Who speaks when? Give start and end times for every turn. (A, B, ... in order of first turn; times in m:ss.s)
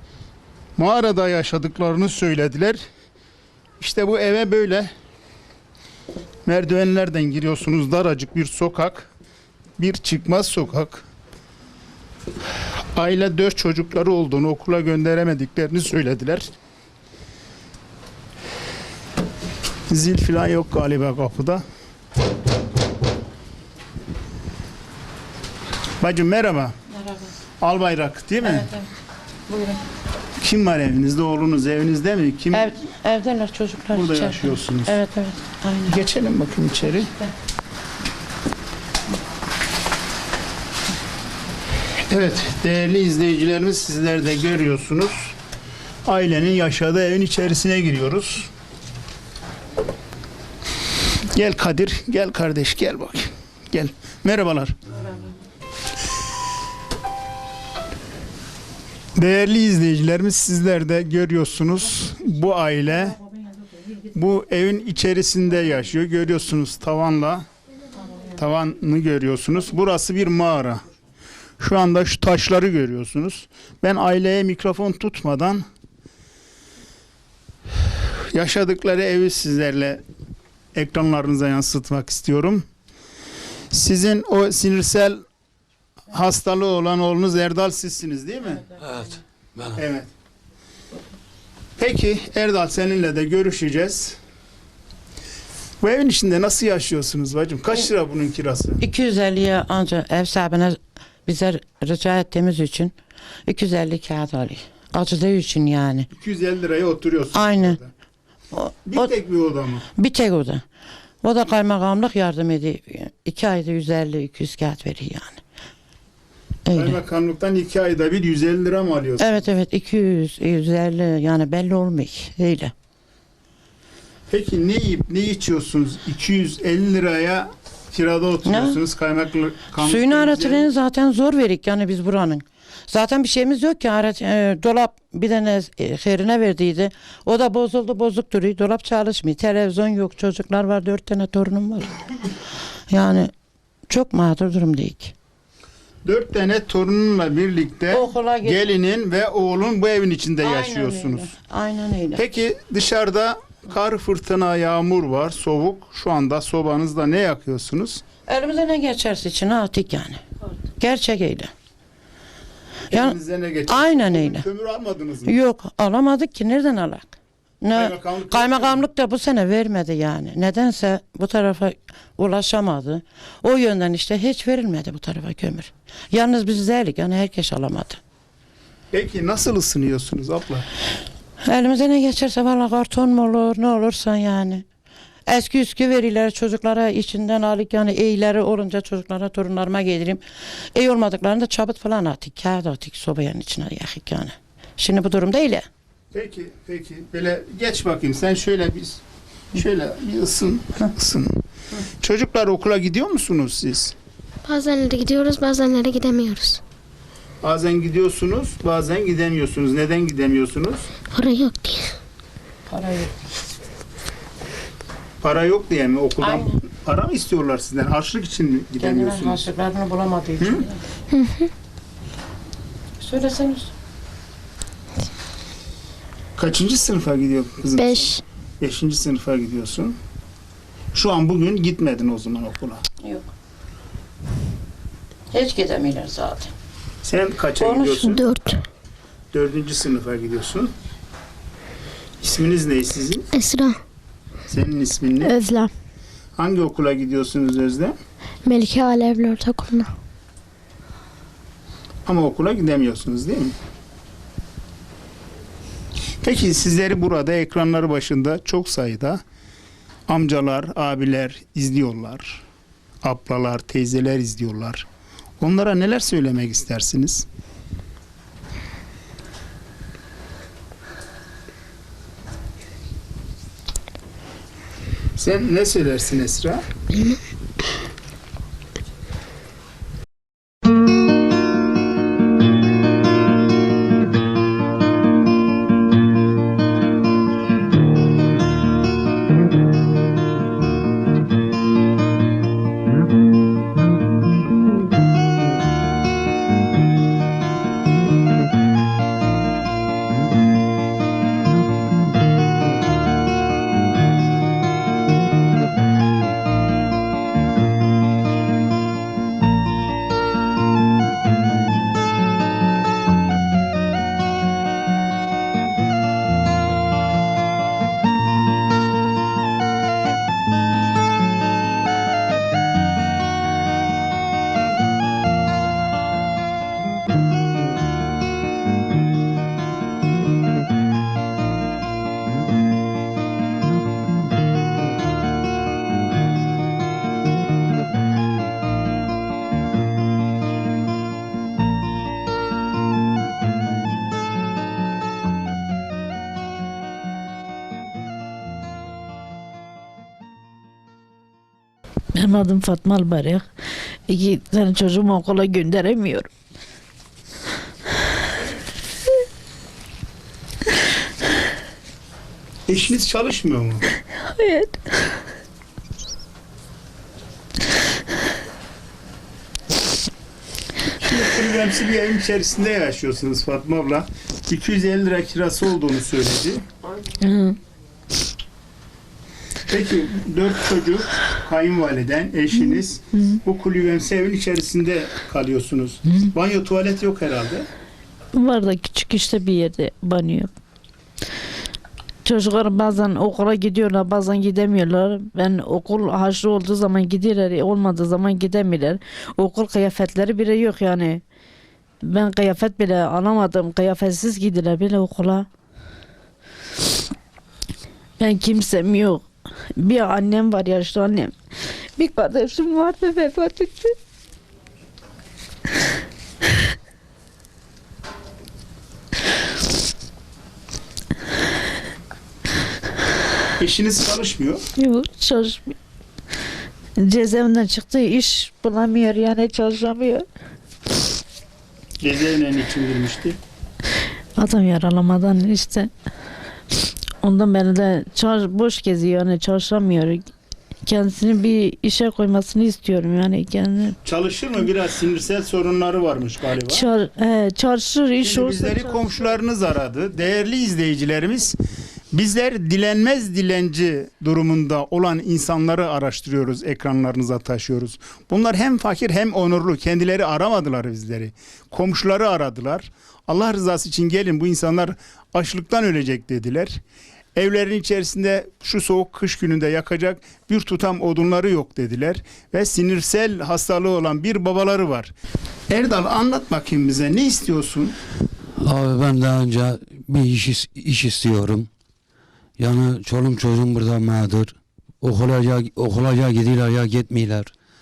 0:00.8-0:02.8 A
0:03.8-0:04.9 A
0:06.5-0:09.1 A
0:09.8-0:11.1 A
0:12.9-0:16.5 A
0:19.9-0:21.6 A
0:26.0-0:26.8 A
0:27.6-0:28.7 A
0:28.4-0:28.9 B
0:29.5-0:29.8 B
0:30.4-0:32.7 A
0:32.5-0:36.0 B
0:33.9-0:35.0 A
0:35.9-0:37.1 A
0:42.1-0:45.3 A
0:46.0-0:48.5 A
0:51.3-0:54.8 A
0:59.2-1:03.2 A
1:04.1-1:07.4 A
1:08.3-1:10.8 A
1:11.6-1:15.6 A
1:18.3-1:20.0 A
1:20.7-1:22.7 A
1:23.7-1:25.2 A
1:26.1-1:28.7 A
1:29.7-1:30.1 A
1:31.8-1:34.2 A
1:35.8-1:38.8 A
1:38.8-1:42.9 B
1:43.5-1:46.1 B
1:46.1-1:47.9 A
1:47.3-1:47.8 B
1:48.5-1:49.1 B
1:48.8-1:49.8 A
1:50.0-1:50.6 B
1:51.2-1:55.4 B
1:56.6-1:57.0 B
1:56.7-1:59.4 A
1:59.2-2:02.7 B
2:04.3-2:10.7 A
2:08.4-2:08.8 B
2:09.8-2:22.0 B
2:22.9-2:23.3 B
2:23.9-2:25.2 B
2:26.0-2:31.3 A
2:27.9-2:28.7 B
2:30.4-2:32.2 B
2:32.2-2:38.0 A
2:38.2-2:40.2 B
2:40.8-2:41.5 B
2:42.9-2:44.4 B
2:42.9-2:45.3 A
2:45.2-2:58.0 B
2:47.8-2:48.8 A
2:58.9-3:00.7 A
3:01.4-3:04.6 B
3:05.3-3:10.2 B
3:10.7-3:15.6 B
3:16.1-3:19.0 A
3:19.5-3:21.4 A
3:22.0-3:24.0 A
3:24.5-3:26.6 C
3:27.4-3:30.9 A
3:31.1-3:32.0 C
3:32.7-3:33.1 B
3:35.2-3:39.4 A
3:36.2-3:36.5 B
3:38.8-3:40.8 B
3:40.4-3:40.6 A
3:41.1-3:41.5 C
3:43.0-3:43.7 B
3:46.4-3:50.0 A
3:47.7-3:48.2 C
3:50.9-3:52.8 A
3:53.0-3:53.3 B
3:55.3-3:56.5 B
3:57.0-3:58.2 A
3:57.6-3:58.2 B
3:58.2-3:58.6 C
3:59.3-4:00.7 A
4:02.2-4:03.3 A
4:03.3-4:03.8 C
4:04.5-4:05.4 A
4:05.2-4:05.7 C
4:06.4-4:07.9 A
4:08.4-4:09.9 C
4:12.0-4:13.6 A
4:16.2-4:19.2 A
4:20.1-4:22.4 A
4:23.0-4:24.9 A
4:25.4-4:27.2 A
4:35.2-4:36.6 A
5:52.2-5:53.4 D
5:54.1-5:56.3 D
6:02.7-6:03.8 A
6:04.4-6:04.7 D
6:10.9-6:16.6 A
6:19.7-6:27.7 A
6:28.4-6:30.5 D
6:32.2-6:41.2 D
6:42.1-6:45.4 D
6:48.2-6:49.2 D
6:49.8-6:51.3 D
6:52.0-6:53.9 D
7:03.6-7:04.6 A
7:04.8-7:05.7 D
7:07.0-7:10.2 D
7:12.0-7:13.4 A
7:14.4-7:15.9 D
7:17.2-7:20.2 D
7:20.9-7:24.0 D
7:24.0-7:26.9 A
7:26.7-7:28.8 D
7:28.2-7:31.6 A
7:32.1-7:46.8 A
7:47.4-7:55.1 A
7:55.7-7:58.0 A
7:58.6-8:01.7 E
8:02.6-8:07.5 E